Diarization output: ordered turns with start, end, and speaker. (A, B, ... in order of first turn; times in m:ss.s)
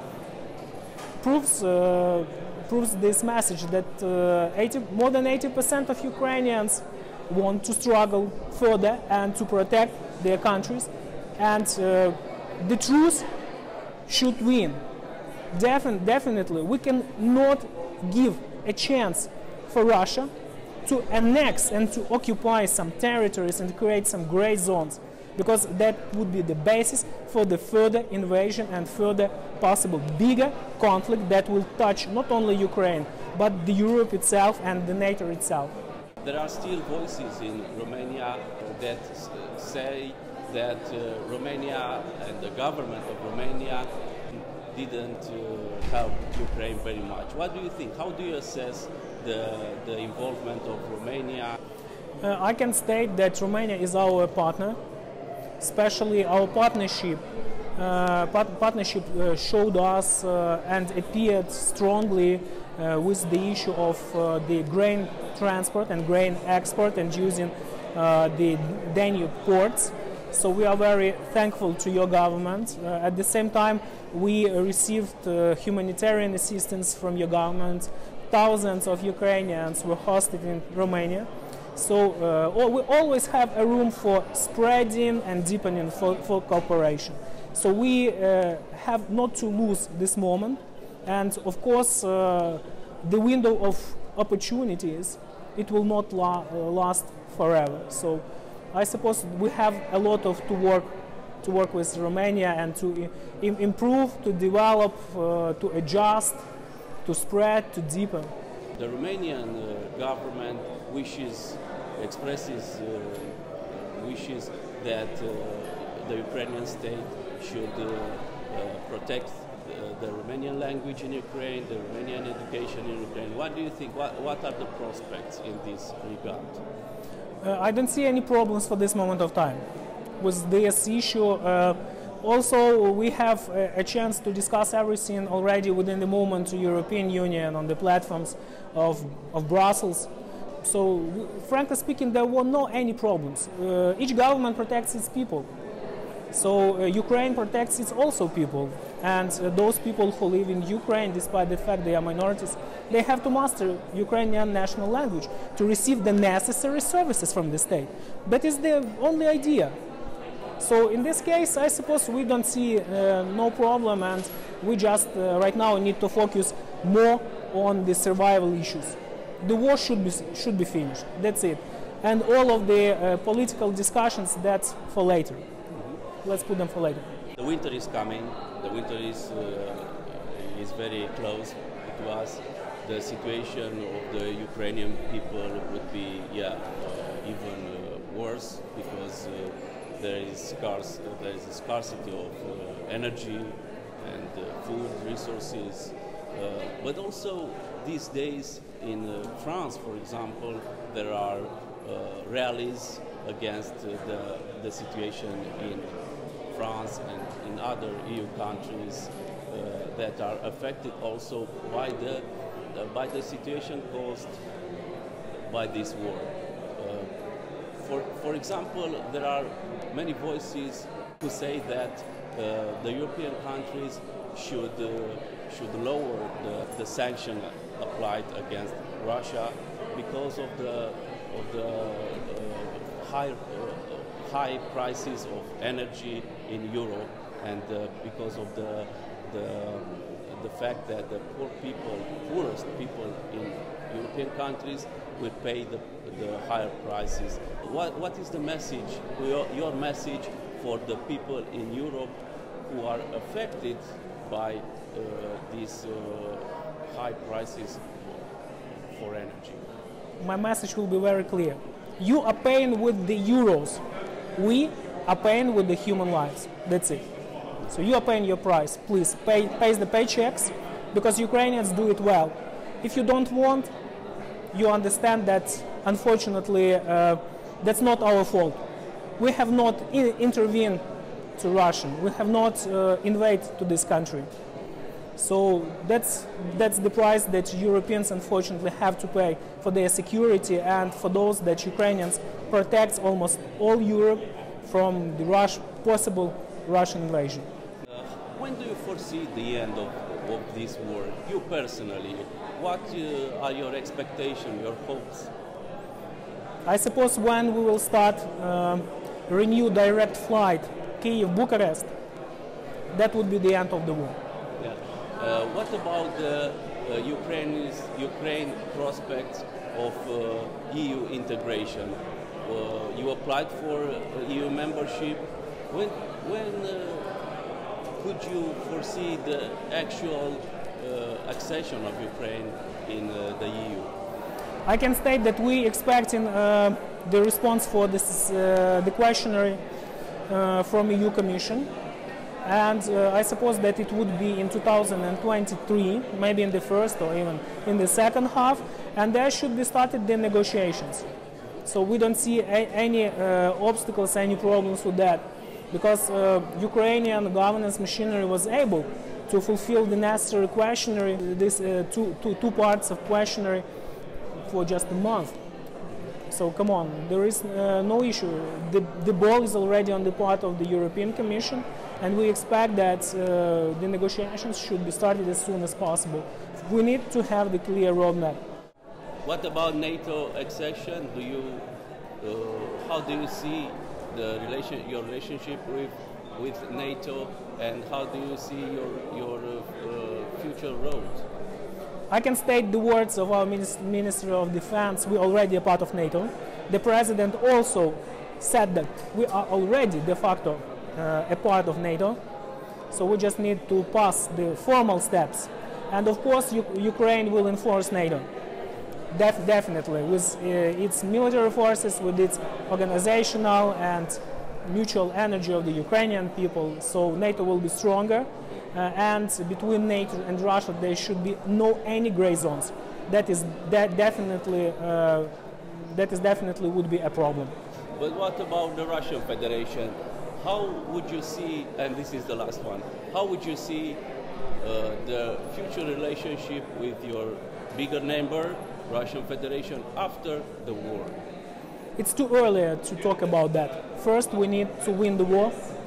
0:01.2-0:13.3 A
0:14.1-0:14.8 A
0:15.5-0:20.3 A
0:20.8-0:35.8 A
0:36.2-0:51.6 B
0:52.2-0:54.8 A
0:55.6-0:57.2 A
0:57.8-1:46.4 A
1:47.0-1:48.3 A
1:48.7-2:06.6 B
2:07.4-2:09.6 A
2:10.2-2:20.1 A
2:20.6-2:25.5 A
2:26.3-2:39.8 A
2:40.6-2:55.4 A
2:55.7-2:56.0 B
2:56.2-2:57.1 A
2:57.4-3:26.0 B
3:26.5-3:34.4 B
3:35.5-3:37.1 B
3:37.8-4:18.2 B
4:18.9-4:19.6 B
4:20.2-4:23.8 A
4:24.4-4:27.0 A
4:27.7-4:33.7 A
4:34.5-4:38.6 A
4:39.2-4:40.8 A
4:41.4-4:44.3 A
4:45.2-4:57.5 A
4:57.9-5:05.3 B
5:06.6-5:11.9 A
5:12.9-5:14.2 A
5:14.6-5:33.9 B
5:34.6-5:39.6 A
5:40.3-5:41.7 A
5:42.4-5:51.1 A
5:51.6-6:03.6 A
6:04.4-6:05.4 A
6:06.3-6:18.4 A
6:19.2-6:21.7 B
6:22.2-6:31.2 B
6:32.1-6:42.2 A
6:42.9-6:48.3 A
6:49.1-7:07.5 A
7:08.0-7:14.0 B
7:14.6-7:21.2 B
7:22.0-7:25.6 A